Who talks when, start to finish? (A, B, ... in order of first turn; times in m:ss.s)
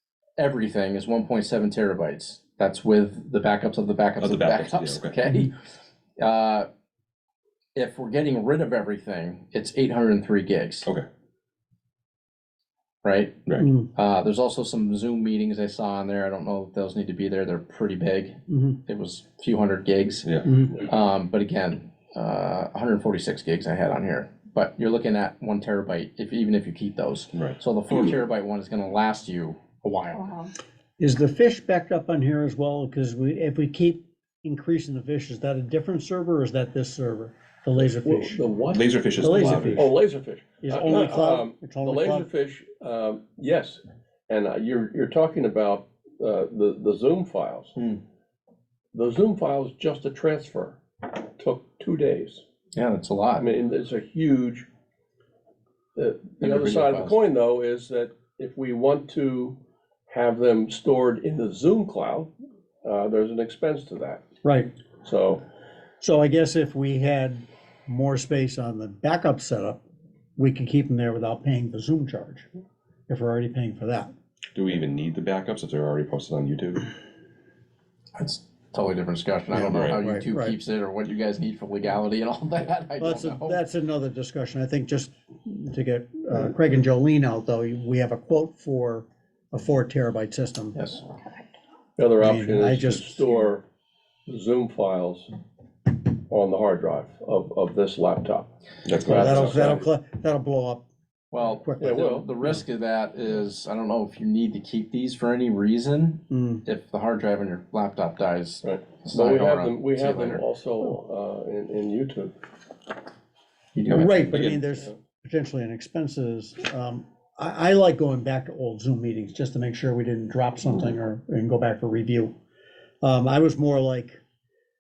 0:00.4-0:05.5 A
0:04.2-0:05.2 B
0:05.2-0:05.5 C
0:06.2-0:06.7 A
0:07.8-0:10.9 A
0:13.0-0:30.3 A
0:13.6-0:13.9 C
0:18.5-0:18.8 C
0:20.5-0:20.8 C
0:27.3-0:27.6 B
0:31.0-0:38.4 C
0:38.0-0:47.8 D
0:38.7-0:39.9 B
0:39.2-0:39.9 C
0:40.6-0:42.3 C
0:48.9-0:50.8 D
0:51.4-0:52.4 D
0:52.7-0:53.5 A
0:53.4-0:54.7 D
0:56.0-0:59.6 D
0:56.4-0:57.2 A
1:00.1-1:02.3 D
1:02.8-1:04.2 D
1:04.4-1:04.7 C
1:05.0-1:05.4 D
1:06.0-1:09.8 C
1:10.4-1:12.5 C
1:13.1-1:14.1 C
1:14.6-1:16.9 B
1:18.2-1:23.6 A
1:19.5-1:20.6 C
1:19.6-1:20.0 B
1:23.0-1:30.8 C
1:30.8-1:31.0 A
1:32.0-1:33.6 D
1:32.2-1:33.3 C
1:34.3-1:35.3 D
1:36.3-1:38.5 D
1:38.8-1:39.6 B
1:39.0-1:39.9 D
1:39.1-1:40.9 C
1:41.3-1:50.4 A
1:41.4-1:42.6 C
1:41.8-1:42.3 D
1:46.3-1:46.6 C
1:48.6-1:52.3 D
1:53.8-1:54.4 A
1:53.9-2:02.3 C
1:53.9-1:54.6 B
2:03.0-2:04.2 C